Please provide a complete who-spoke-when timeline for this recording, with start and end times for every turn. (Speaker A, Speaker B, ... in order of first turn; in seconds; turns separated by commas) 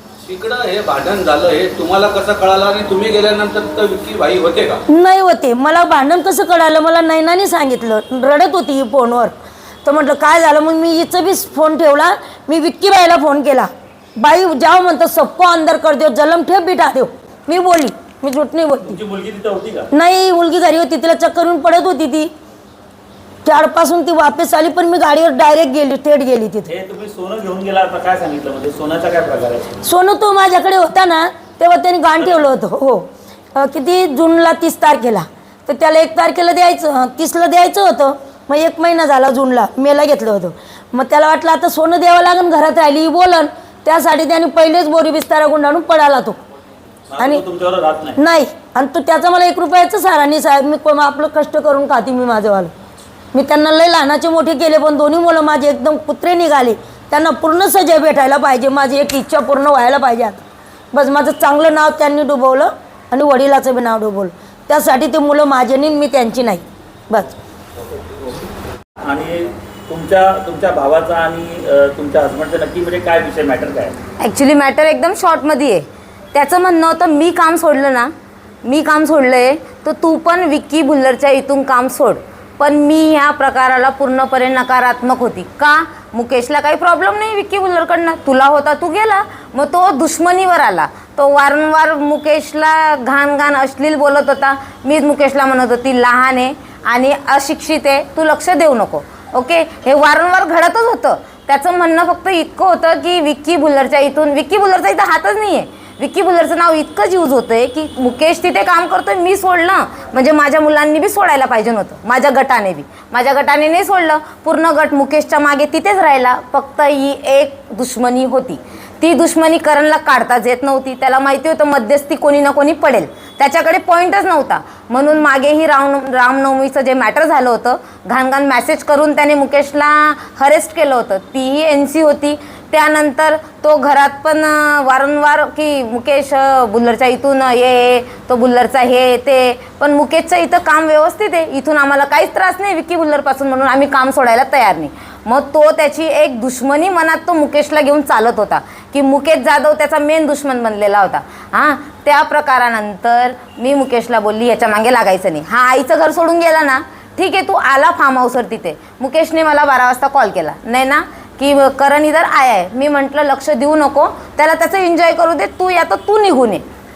Speaker A: 0.2-4.8, Speaker B: 4.9-9.3, Speaker B: 9.8-19.0, Speaker C: 18.9-19.9, Speaker B: 19.9-22.3, Speaker B: 23.4-26.7, Speaker C: 26.6-29.7, Speaker B: 29.8-46.4, Speaker C: 32.2-32.5, Speaker C: 47.1-48.2, Speaker B: 47.2-47.4, Speaker B: 48.1-52.7, Speaker B: 53.3-67.3, Speaker C: 69.0-73.9, Speaker D: 74.2-78.1, Speaker D: 78.6-166.6